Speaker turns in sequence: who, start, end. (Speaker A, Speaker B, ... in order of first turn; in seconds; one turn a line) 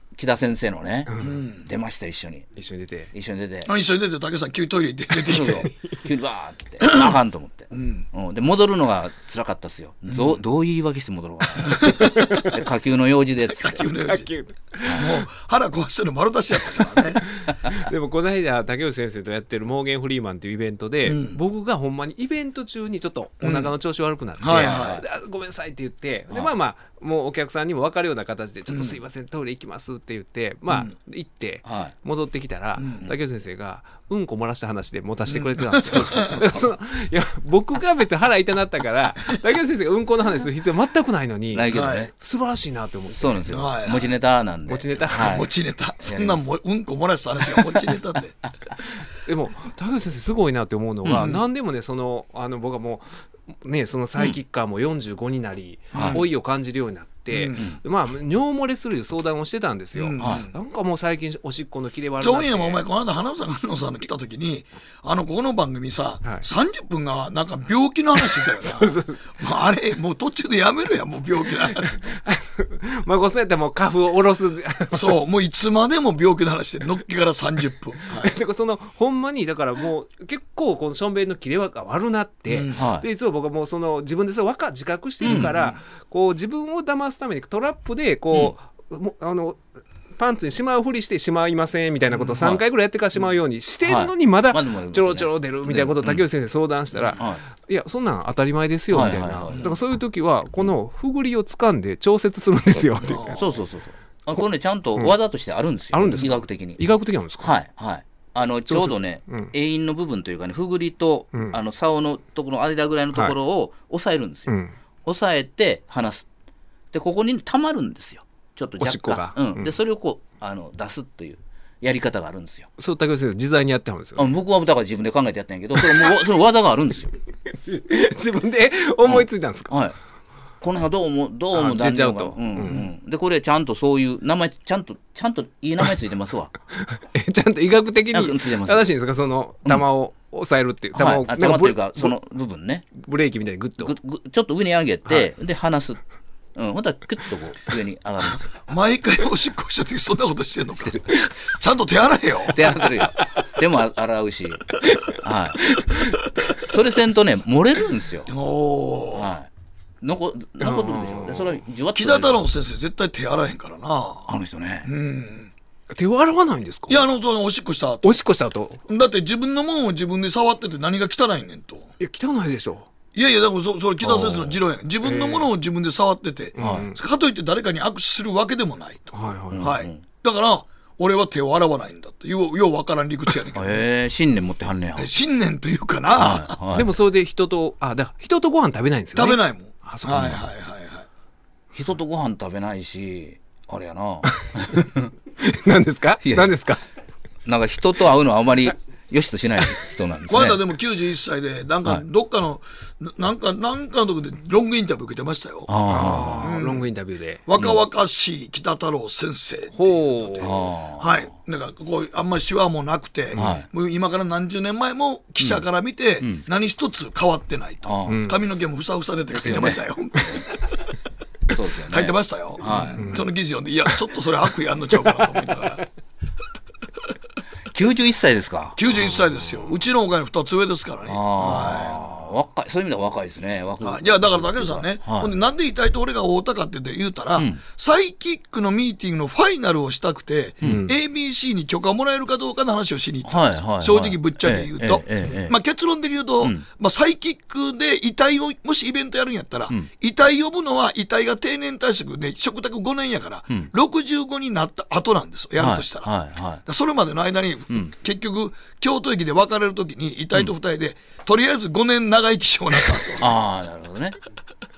Speaker A: 0.2-2.5
Speaker B: 1.1-1.4
Speaker C: 1.2-1.7
Speaker B: 2.6-3.1
Speaker A: 3.1-3.7
Speaker C: 3.6-5.7
Speaker A: 5.3-13.9
Speaker C: 6.8-7.2
Speaker C: 7.7-8.1
Speaker C: 10.1-10.4
Speaker C: 11.6-12.1
Speaker B: 11.8-12.6
Speaker C: 13.6-14.3
Speaker B: 14.0-15.1
Speaker A: 14.8-15.1
Speaker C: 14.9-17.2
Speaker B: 17.2-43.5
Speaker C: 21.1-21.4
Speaker C: 23.4-23.7
Speaker C: 24.4-25.0
Speaker A: 24.5-25.0
Speaker A: 31.6-31.9
Speaker C: 32.8-33.1
Speaker C: 35.3-36.5
Speaker A: 35.9-36.6
Speaker A: 41.5-42.1
Speaker C: 41.7-42.1
Speaker A: 43.1-45.5
Speaker C: 43.5-44.2
Speaker B: 44.7-45.4
Speaker C: 45.1-48.4
Speaker A: 46.0-46.4
Speaker B: 49.2-62.8
Speaker A: 51.0-51.4
Speaker C: 51.1-51.4
Speaker A: 55.9-56.2
Speaker C: 55.9-56.2
Speaker C: 57.3-57.7
Speaker C: 60.0-60.5
Speaker A: 60.2-60.5
Speaker C: 62.2-72.2
Speaker B: 68.4-69.2
Speaker B: 72.2-75.1
Speaker C: 74.9-78.3
Speaker B: 78.2-103.4
Speaker C: 82.5-82.8
Speaker A: 82.7-83.0
Speaker A: 85.2-85.5
Speaker C: 85.2-85.8
Speaker A: 92.4-92.6
Speaker A: 93.8-96.3
Speaker A: 97.2-97.4
Speaker A: 98.9-99.7
Speaker C: 103.0-103.6
Speaker A: 103.3-106.8
Speaker B: 105.9-107.5
Speaker A: 107.4-114.5
Speaker B: 108.7-109.5
Speaker B: 114.5-114.7
Speaker A: 115.0-116.3
Speaker A: 116.9-122.7
Speaker B: 118.8-119.7
Speaker B: 122.8-124.3
Speaker A: 124.2-127.2
Speaker B: 125.8-126.1
Speaker B: 127.5-129.7
Speaker A: 129.1-130.0
Speaker A: 130.6-136.5
Speaker B: 131.5-132.9
Speaker B: 136.8-142.2
Speaker A: 138.1-138.9
Speaker A: 140.9-142.9
Speaker B: 143.0-143.9
Speaker A: 143.8-146.0
Speaker A: 146.6-148.6
Speaker C: 148.6-152.8
Speaker A: 150.8-151.3
Speaker A: 152.5-155.8
Speaker B: 154.8-156.2
Speaker A: 156.6-158.3
Speaker C: 158.3-159.3
Speaker A: 159.1-159.5
Speaker A: 160.0-162.4
Speaker B: 160.6-161.5
Speaker C: 161.9-164.3
Speaker A: 164.3-164.9
Speaker C: 164.8-165.5
Speaker B: 165.9-167.1
Speaker C: 166.9-168.2
Speaker B: 168.0-168.8
Speaker C: 168.9-171.9
Speaker B: 172.0-172.9
Speaker C: 173.2-183.8
Speaker A: 174.0-174.6
Speaker B: 175.0-175.5
Speaker B: 176.6-177.0
Speaker A: 176.6-176.9
Speaker B: 179.1-179.7
Speaker A: 179.5-180.0
Speaker A: 183.5-185.1
Speaker C: 185.0-186.6
Speaker A: 186.2-186.9
Speaker B: 186.7-190.4
Speaker C: 189.2-191.1
Speaker A: 190.1-190.4
Speaker A: 191.7-195.1
Speaker B: 194.2-194.9
Speaker B: 195.4-196.8
Speaker A: 196.2-196.6
Speaker A: 197.5-200.6
Speaker C: 200.3-206.9
Speaker A: 205.7-206.5
Speaker B: 205.9-207.4
Speaker C: 207.5-220.8
Speaker A: 207.6-207.8
Speaker B: 209.7-210.5
Speaker A: 210.4-211.3
Speaker B: 213.3-213.6
Speaker A: 213.4-213.7
Speaker A: 217.8-218.2
Speaker B: 218.1-218.4
Speaker A: 219.3-219.8
Speaker A: 221.5-223.2
Speaker C: 221.9-225.8
Speaker B: 222.8-223.3
Speaker A: 227.7-228.8
Speaker C: 228.8-232.0
Speaker A: 231.1-235.3
Speaker C: 233.8-256.1
Speaker A: 237.4-237.6
Speaker B: 240.6-241.0
Speaker A: 243.2-245.6
Speaker A: 255.6-256.6
Speaker C: 256.7-263.3
Speaker A: 263.2-264.2